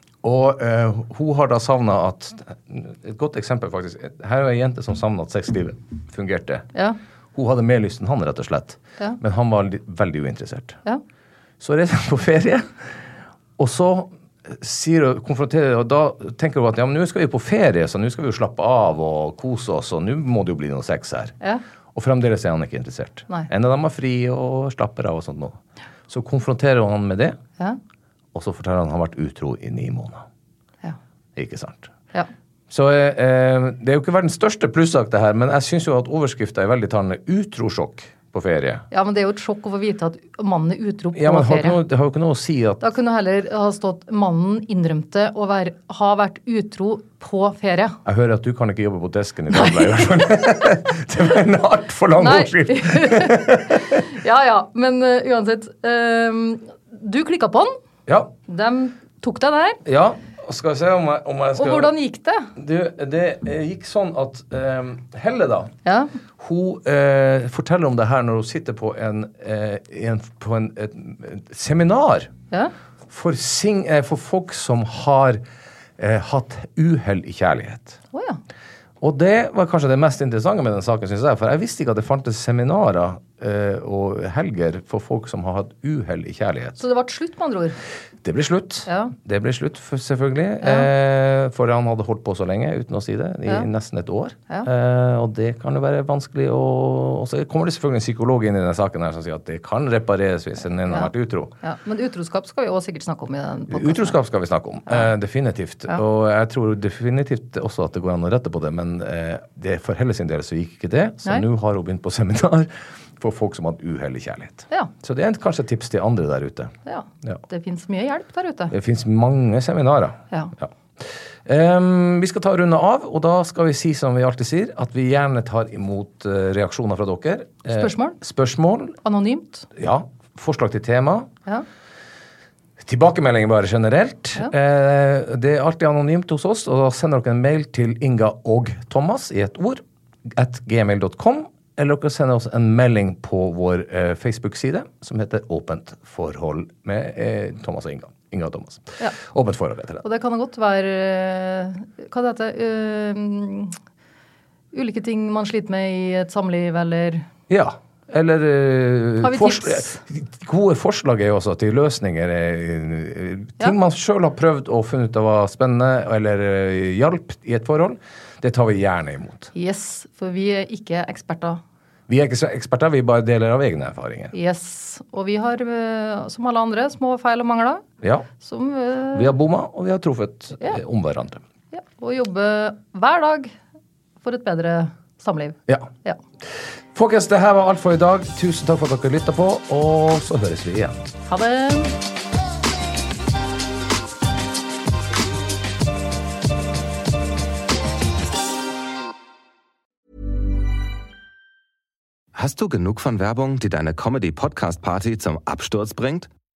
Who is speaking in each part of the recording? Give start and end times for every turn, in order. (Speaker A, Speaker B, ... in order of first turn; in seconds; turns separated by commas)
Speaker A: 0.2-6.7, Speaker A: 7.3-10.8, Speaker A: 11.6-21.4, Speaker A: 21.9-27.4, Speaker A: 28.3-30.2, Speaker A: 31.4-31.9, Speaker A: 32.7-38.8, Speaker B: 38.9-41.8, Speaker A: 41.1-42.8, Speaker B: 42.8-48.0, Speaker A: 48.0-54.0, Speaker B: 49.5-50.7, Speaker B: 52.2-57.8, Speaker A: 58.1-58.3, Speaker B: 58.5-59.8, Speaker A: 59.8-61.9, Speaker B: 61.6-62.5, Speaker A: 62.5-65.7, Speaker B: 65.8-66.1, Speaker A: 66.4-72.3, Speaker A: 73.1-75.4, Speaker A: 76.0-78.0, Speaker B: 78.1-78.4, Speaker A: 79.0-86.8, Speaker B: 86.8-87.8, Speaker A: 88.2-101.5, Speaker B: 88.9-89.1, Speaker B: 90.6-90.9, Speaker B: 101.6-104.2, Speaker A: 103.7-117.4, Speaker B: 116.8-118.7, Speaker A: 118.7-129.0, Speaker B: 127.7-128.2, Speaker B: 129.0-129.7, Speaker A: 129.8-131.3, Speaker A: 132.8-150.0, Speaker B: 150.0-153.8, Speaker B: 154.7-157.2, Speaker A: 157.5-169.5, Speaker B: 159.2-160.0, Speaker B: 169.5-171.6, Speaker A: 172.1-174.3, Speaker B: 174.3-177.8, Speaker A: 178.0-178.3, Speaker B: 178.4-179.3, Speaker A: 179.1-181.4, Speaker B: 181.7-183.5, Speaker B: 184.2-186.2, Speaker A: 186.9-191.0, Speaker B: 191.2-191.9, Speaker C: 202.3-206.3